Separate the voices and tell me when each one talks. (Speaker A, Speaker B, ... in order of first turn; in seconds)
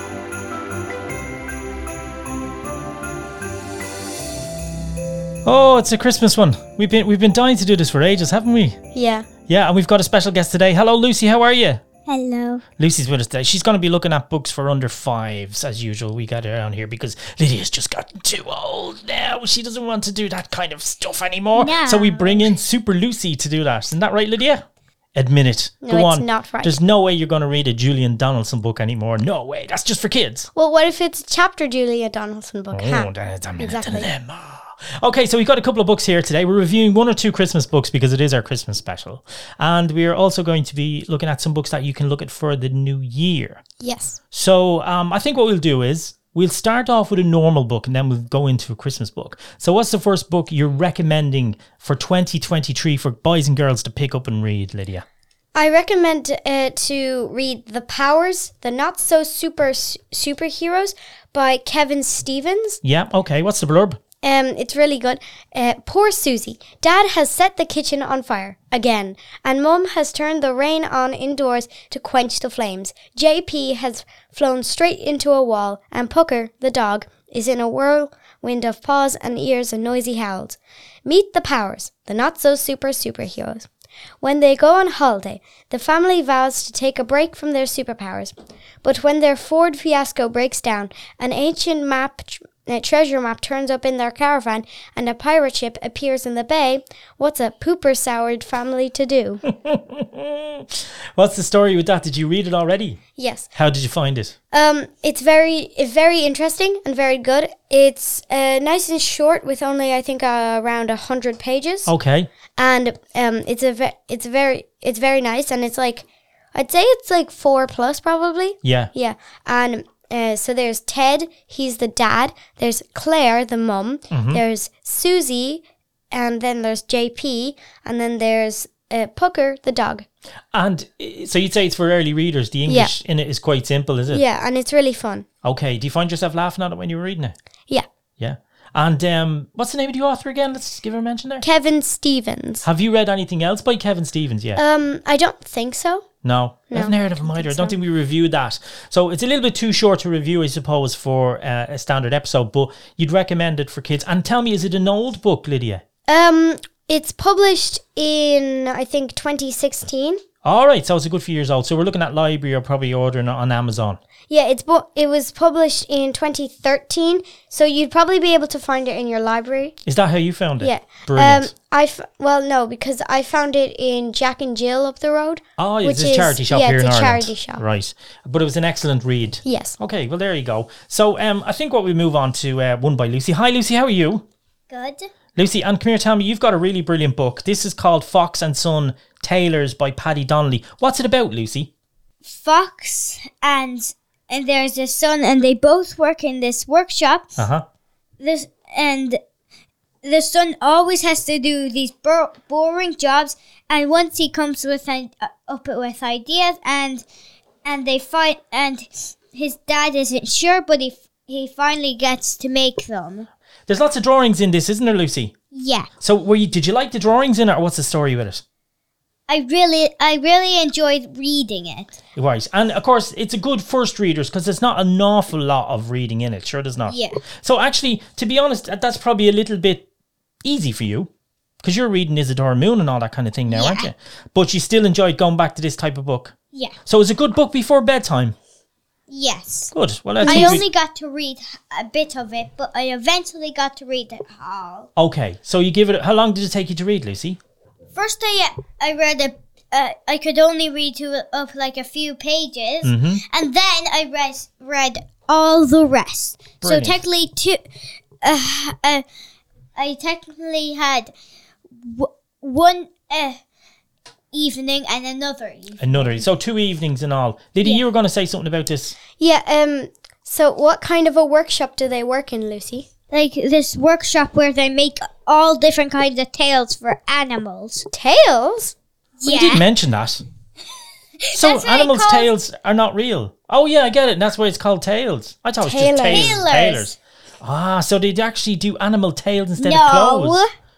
Speaker A: 5.4-8.8, 9.5-11.8, 12.8-24.6, 25.1-30.5, 32.7-43.6, 44.3-55.0, 62.8-64.0, 99.5-103.0, 103.5-104.3, 111.9-112.3, 118.6-118.9, 124.1-124.4, 130.5-134.2, 135.4-137.3, 138.2-141.4, 142.6-144.6, 146.2-155.8, 160.4-164.0, 169.8-171.5, 175.6-184.2, 185.3-191.7, 197.4-197.6, 213.7-215.3, 216.0-218.4, 222.1-229.8, 230.4-231.1, 231.6-238.3, 239.7-240.7, 244.9-247.4, 252.8-253.2, 256.6-257.0, 265.8-268.9, 279.2-280.2, 281.3-290.4
Speaker B: 8.9-9.3, 25.8-26.8, 30.5-34.1, 43.8-44.2, 55.5-62.8, 64.2-83.7, 84.2-99.4, 103.2-103.5, 104.5-111.9, 112.6-130.1, 132.7-132.9, 134.1-135.2, 141.4-142.6, 144.6-146.1, 146.7-147.7, 156.1-160.2, 164.3-169.7, 170.6-177.6, 179.4-179.8, 240.2-240.6, 269.2-272.9, 277.9-278.7, 285.6-286.4
Speaker C: 12.1-12.6, 21.5-22.5, 184.7-185.1, 192.2-197.4, 198.2-199.2, 200.0-207.0, 207.6-213.3, 215.5-215.9, 219.3-221.9, 226.9-227.2, 233.5-233.9, 239.1-239.7, 240.2-244.9, 247.9-257.6, 258.2-259.0, 259.8-261.1, 261.8-263.4, 264.3-266.2, 273.1-277.9, 279.2-279.6, 281.2-282.3, 286.1-286.9, 289.6-290.5